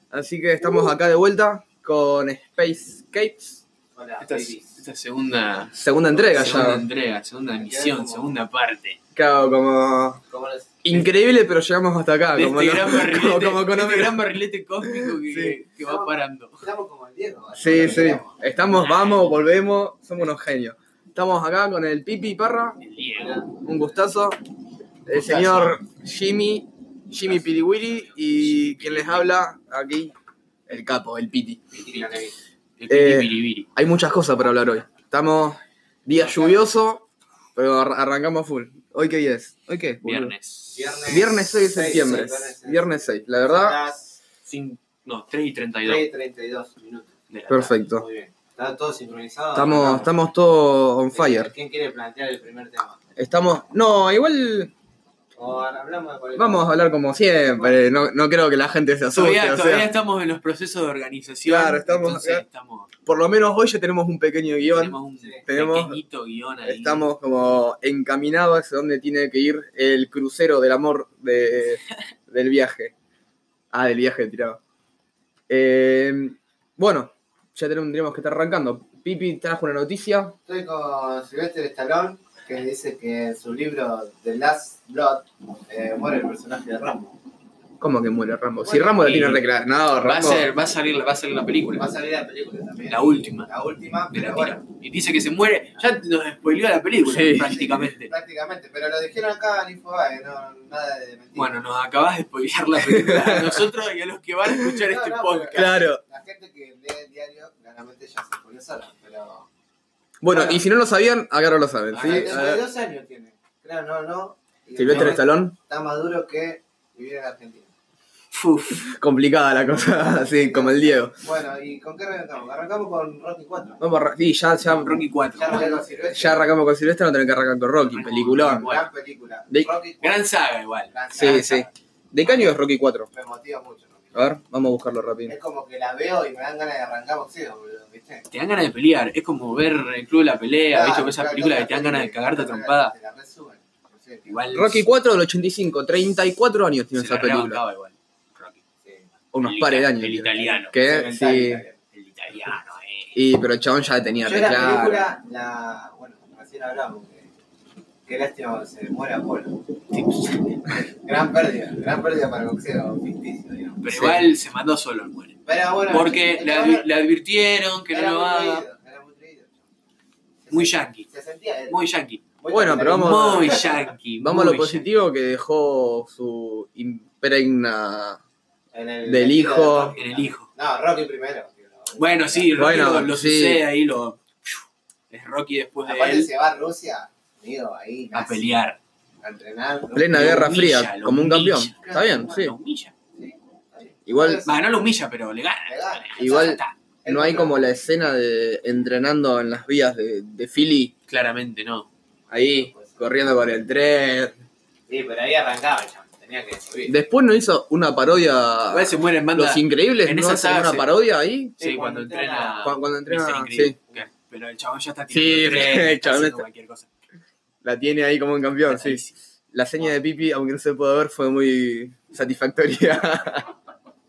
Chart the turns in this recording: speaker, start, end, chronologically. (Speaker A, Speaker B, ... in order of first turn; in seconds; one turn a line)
Speaker A: 0.1-3.6
Speaker B: 4.0-4.8
Speaker C: 4.2-9.0
Speaker A: 5.7-6.8
Speaker B: 7.5-8.3
Speaker A: 9.2-10.2
Speaker B: 10.3-11.1
Speaker A: 10.8-14.2
Speaker C: 12.3-16.7
Speaker A: 14.9-15.6
Speaker B: 15.8-18.4
Speaker A: 17.6-22.8
Speaker C: 18.6-19.5
Speaker C: 22.8-23.4
Speaker A: 23.6-24.4
Speaker A: 25.1-30.1
Speaker B: 25.2-25.7
Speaker C: 25.4-25.7
Speaker C: 27.5-29.3
Speaker A: 30.7-31.6
Speaker B: 31.7-32.3
Speaker C: 32.8-33.7
Speaker A: 32.9-37.0
Speaker B: 36.1-36.6
Speaker A: 37.6-40.4
Speaker C: 40.0-41.0
Speaker B: 40.7-44.2
Speaker A: 41.1-43.8
Speaker C: 44.5-46.1
Speaker B: 45.8-47.1
Speaker C: 47.3-47.8
Speaker A: 47.5-48.0
Speaker B: 48.0-50.1
Speaker A: 49.5-51.5
Speaker B: 51.1-53.0
Speaker A: 53.2-54.7
Speaker B: 55.4-57.9
Speaker A: 56.4-59.9
Speaker C: 59.1-62.9
Speaker A: 61.5-62.4
Speaker A: 63.0-66.0
Speaker C: 64.6-67.1
Speaker A: 66.6-72.9
Speaker A: 73.7-74.6
Speaker A: 75.5-80.4
Speaker B: 80.5-87.2
Speaker A: 87.8-90.5
Speaker B: 88.6-89.4
Speaker C: 89.0-89.4
Speaker C: 90.0-91.9
Speaker B: 91.8-94.6
Speaker C: 92.9-93.5
Speaker C: 94.1-98.1
Speaker A: 97.1-97.7
Speaker B: 97.3-101.6
Speaker C: 101.3-105.8
Speaker A: 102.9-103.6
Speaker B: 104.7-109.5
Speaker A: 105.5-106.0
Speaker A: 110.2-112.6
Speaker B: 110.3-110.6
Speaker B: 111.9-117.7
Speaker A: 114.8-115.5
Speaker C: 118.3-118.9
Speaker A: 118.8-121.2
Speaker B: 120.1-123.8
Speaker A: 123.8-125.0
Speaker C: 124.7-125.8
Speaker B: 125.3-126.5
Speaker A: 126.1-128.7
Speaker C: 127.9-128.9
Speaker B: 128.4-130.3
Speaker C: 130.0-131.3
Speaker B: 130.9-134.3
Speaker A: 131.1-133.1
Speaker A: 134.2-135.3
Speaker B: 135.3-138.3
Speaker C: 138.3-142.9
Speaker B: 140.7-144.4
Speaker C: 144.3-144.9
Speaker A: 144.5-147.6
Speaker C: 146.9-148.6
Speaker A: 149.3-151.6
Speaker C: 149.4-150.8
Speaker B: 150.4-151.8
Speaker C: 151.9-153.2
Speaker A: 153.2-155.1
Speaker B: 154.2-157.3
Speaker B: 158.1-159.6
Speaker C: 159.9-160.8
Speaker B: 160.9-163.8
Speaker C: 163.8-168.7
Speaker A: 163.9-164.3
Speaker B: 165.5-166.9
Speaker B: 167.9-169.5
Speaker B: 170.4-171.8
Speaker C: 170.5-171.1
Speaker C: 171.7-172.2
Speaker B: 172.4-173.9
Speaker A: 172.5-173.6
Speaker C: 172.9-174.9
Speaker A: 174.2-178.2
Speaker B: 178.7-182.6
Speaker A: 179.0-179.9
Speaker C: 180.0-180.5
Speaker C: 182.0-186.3
Speaker A: 182.6-183.7
Speaker B: 185.8-188.5
Speaker C: 188.1-188.8
Speaker B: 189.2-190.5
Speaker A: 189.9-192.5
Speaker C: 190.1-192.9
Speaker B: 191.7-192.4
Speaker B: 193.2-194.9
Speaker A: 194.1-194.4
Speaker C: 194.4-196.8
Speaker B: 195.7-197.8
Speaker A: 196.2-200.9
Speaker C: 201.1-201.9
Speaker A: 202.3-204.4
Speaker B: 202.4-203.1
Speaker B: 204.9-206.9
Speaker A: 206.9-211.6
Speaker C: 208.7-211.0
Speaker C: 211.6-216.9
Speaker B: 211.6-212.7
Speaker A: 212.6-213.8
Speaker A: 215.1-216.4
Speaker A: 217.6-223.5
Speaker C: 218.7-219.1